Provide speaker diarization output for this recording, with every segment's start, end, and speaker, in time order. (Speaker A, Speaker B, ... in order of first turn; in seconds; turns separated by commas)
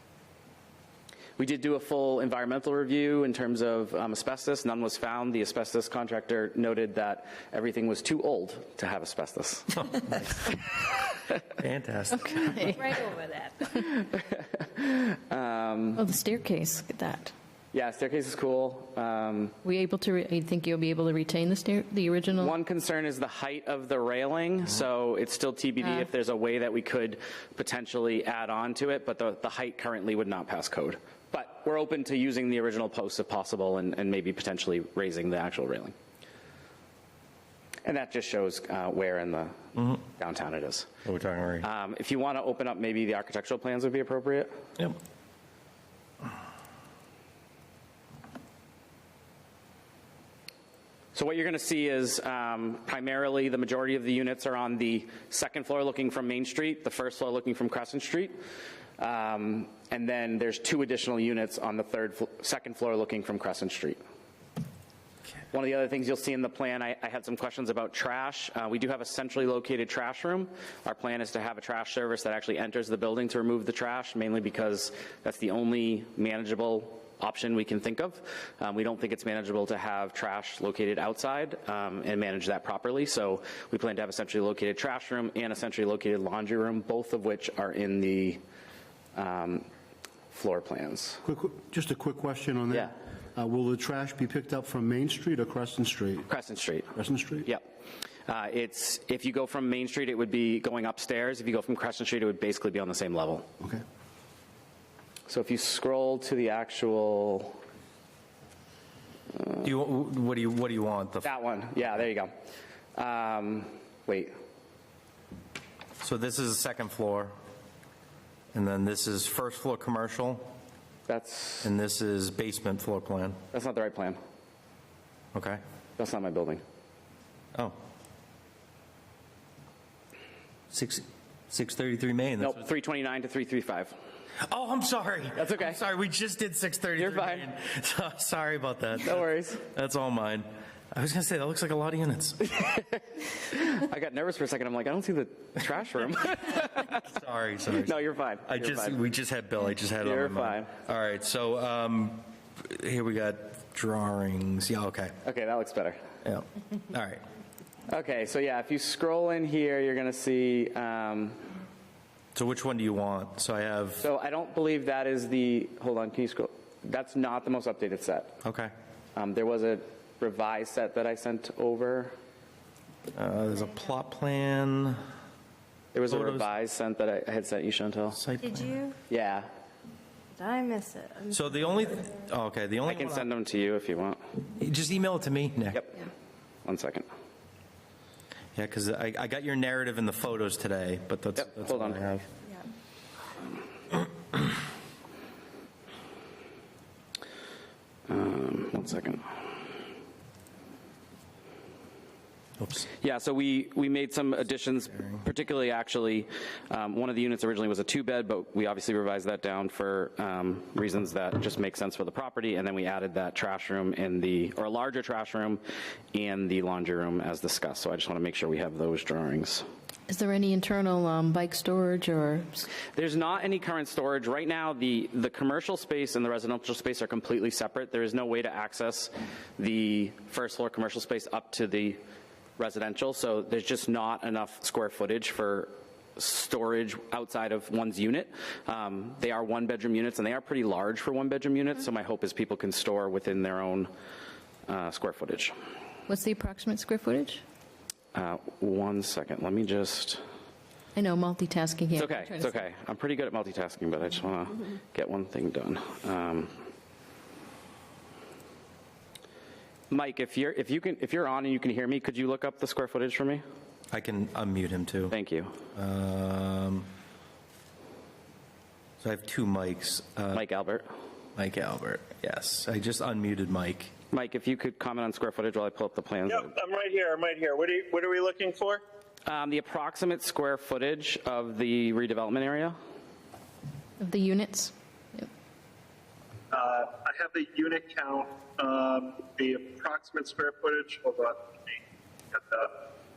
Speaker A: 1.4-10.0, Speaker B: 11.5-12.8, Speaker C: 12.3-12.8, Speaker D: 12.9-13.5, Speaker A: 13.7-16.0, Speaker C: 15.9-17.3, Speaker A: 17.7-19.6, Speaker C: 19.6-22.5, Speaker A: 22.3-35.9, Speaker C: 25.8-26.1, Speaker A: 37.8-40.9, Speaker B: 41.0-41.7, Speaker A: 41.6-44.6, Speaker A: 51.1-58.4, Speaker A: 59.0-64.0, Speaker A: 65.5-88.4, Speaker A: 89.1-89.7, Speaker A: 90.3-91.2, Speaker E: 91.2-96.2, Speaker A: 96.3-97.6, Speaker E: 96.9-97.5, Speaker A: 98.3-103.5, Speaker A: 105.3-107.6, Speaker B: 109.6-111.3, Speaker A: 111.2-112.3, Speaker A: 113.0-114.3, Speaker B: 116.0-117.3, Speaker B: 118.5-120.5, Speaker A: 121.1-121.7, Speaker B: 121.6-123.4, Speaker A: 123.5-124.2, Speaker B: 125.3-125.6, Speaker A: 126.0-126.6, Speaker B: 130.7-132.6, Speaker A: 132.4-133.9, Speaker B: 134.4-142.7, Speaker A: 135.3-135.8, Speaker A: 137.0-137.5, Speaker A: 139.0-139.6, Speaker A: 143.5-147.1, Speaker B: 146.9-155.2, Speaker A: 147.8-149.0, Speaker A: 150.0-150.7, Speaker A: 155.2-156.0, Speaker B: 156.2-157.2, Speaker A: 157.9-161.5, Speaker B: 162.3-164.0, Speaker A: 164.0-168.3, Speaker B: 168.4-168.7, Speaker A: 169.2-172.1, Speaker B: 173.1-175.0, Speaker A: 175.9-178.2, Speaker B: 176.1-176.4, Speaker B: 178.1-178.8, Speaker D: 178.5-178.9, Speaker A: 179.1-179.5, Speaker D: 180.3-181.5, Speaker B: 181.3-183.2, Speaker A: 182.8-184.2, Speaker B: 184.5-185.9, Speaker A: 185.7-186.0, Speaker A: 186.6-187.1, Speaker B: 188.5-192.2, Speaker A: 191.4-192.0, Speaker A: 198.1-199.4, Speaker B: 202.6-202.9, Speaker A: 203.0-215.6, Speaker A: 216.1-219.6, Speaker C: 220.1-222.7, Speaker A: 222.9-232.0, Speaker A: 232.6-243.9, Speaker A: 244.7-245.5, Speaker C: 246.1-247.4, Speaker A: 248.1-250.2, Speaker C: 250.9-252.6, Speaker A: 251.9-256.6, Speaker A: 259.9-263.4, Speaker B: 263.9-265.1, Speaker A: 265.1-265.5, Speaker B: 265.7-266.9, Speaker B: 269.0-270.4, Speaker A: 270.3-270.9, Speaker B: 271.4-273.9, Speaker A: 274.1-276.5, Speaker F: 276.3-278.8, Speaker A: 279.2-282.8, Speaker C: 284.0-285.2, Speaker F: 286.5-291.8, Speaker F: 292.3-292.8